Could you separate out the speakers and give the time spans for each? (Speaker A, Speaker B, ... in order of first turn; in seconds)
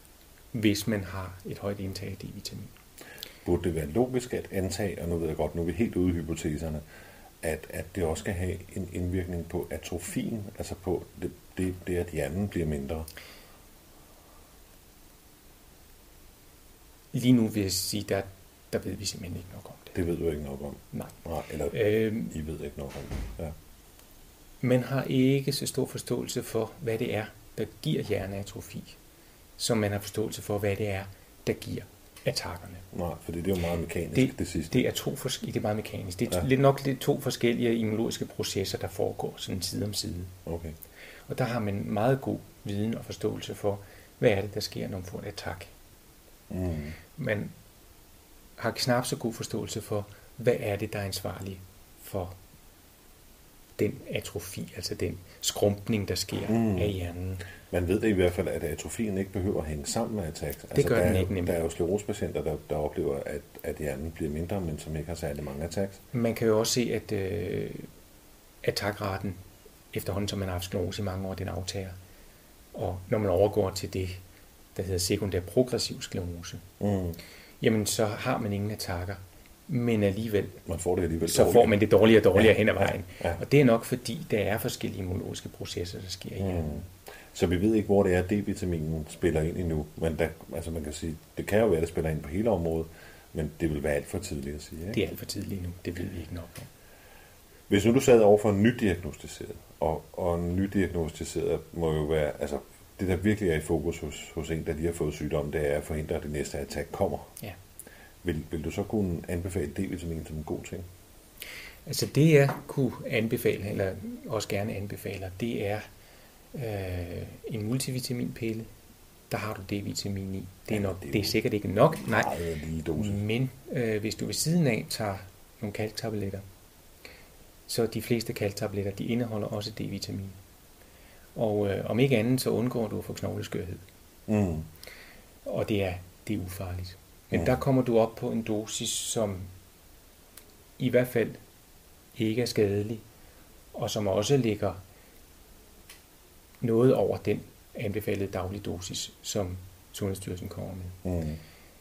Speaker A: 0.5-2.7, 17.1-20.0, 21.7-22.4, 24.6-29.0, 29.6-32.9, 34.1-40.3, 41.3-45.7, 47.2-47.5, 48.6-52.4, 53.8-57.5, 60.7-61.6, 66.1-67.9, 68.6-69.4, 69.9-72.0, 72.7-74.2, 74.8-76.6, 77.6-80.6, 81.2-86.9, 94.9-96.7, 111.9-115.8, 116.5-118.7, 119.3-122.3, 123.0-126.4, 127.7-130.4, 131.3-133.8, 135.4-139.5, 140.8-141.4, 142.2-143.0, 143.7-144.8, 146.6-151.0
Speaker B: 3.5-6.8, 7.4-13.1, 19.9-23.6, 32.9-34.9, 40.5-40.8, 46.5-47.0, 56.5-57.0, 57.7-66.0, 76.8-77.2, 80.7-81.8, 82.3-83.4, 86.4-95.0, 97.7-107.3, 108.2-110.9, 120.7-121.4, 122.0-123.2, 134.3-134.7, 137.3-137.6, 151.0-151.4